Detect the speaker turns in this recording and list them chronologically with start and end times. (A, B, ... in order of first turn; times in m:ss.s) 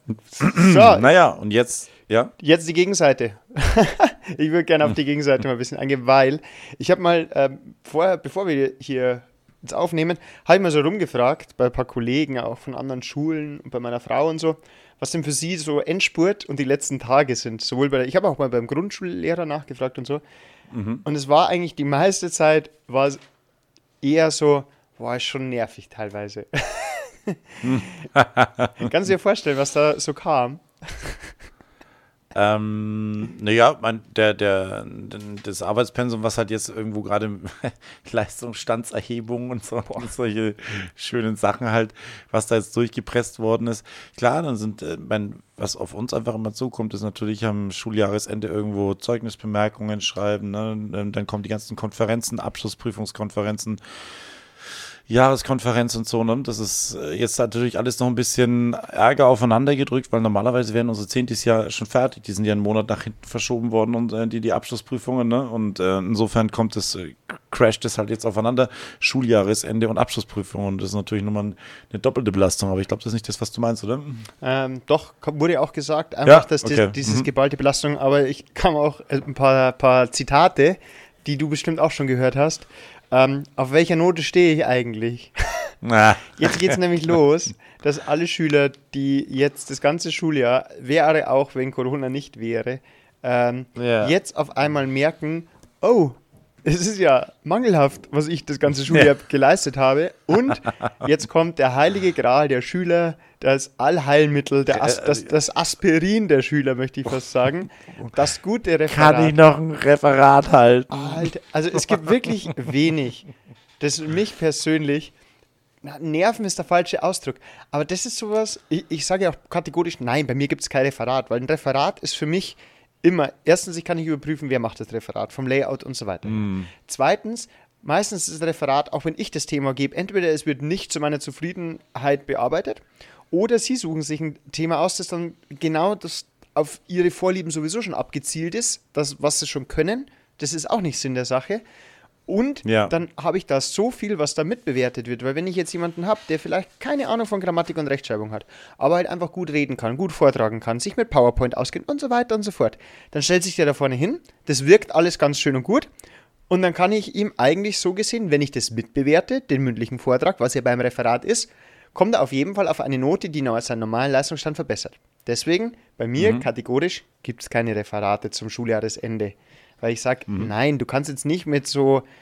0:00.3-0:01.1 A
0:00.4-0:02.3 B
0:02.4-0:20.2 A
0:20.7-0:21.0 B
0:21.0-0:23.2 A
0:24.0-0:27.9 A
0:27.6-0:28.9 B
0:28.8-0:31.3 A
0:32.3-0:53.8 B
0:55.1-1:14.3 B
1:14.4-1:25.7 A
1:16.2-1:17.3 B
1:25.8-1:26.8 B
1:26.3-1:49.3 A
1:33.8-1:34.1 B
1:44.7-1:45.2 B
1:48.9-1:52.0 B
1:50.9-1:55.1 A
1:55.8-2:21.6 A
2:06.2-2:06.7 B
2:22.3-2:35.9 A
2:22.6-2:22.9 B
2:36.5-2:52.0 A
2:46.2-2:46.5 B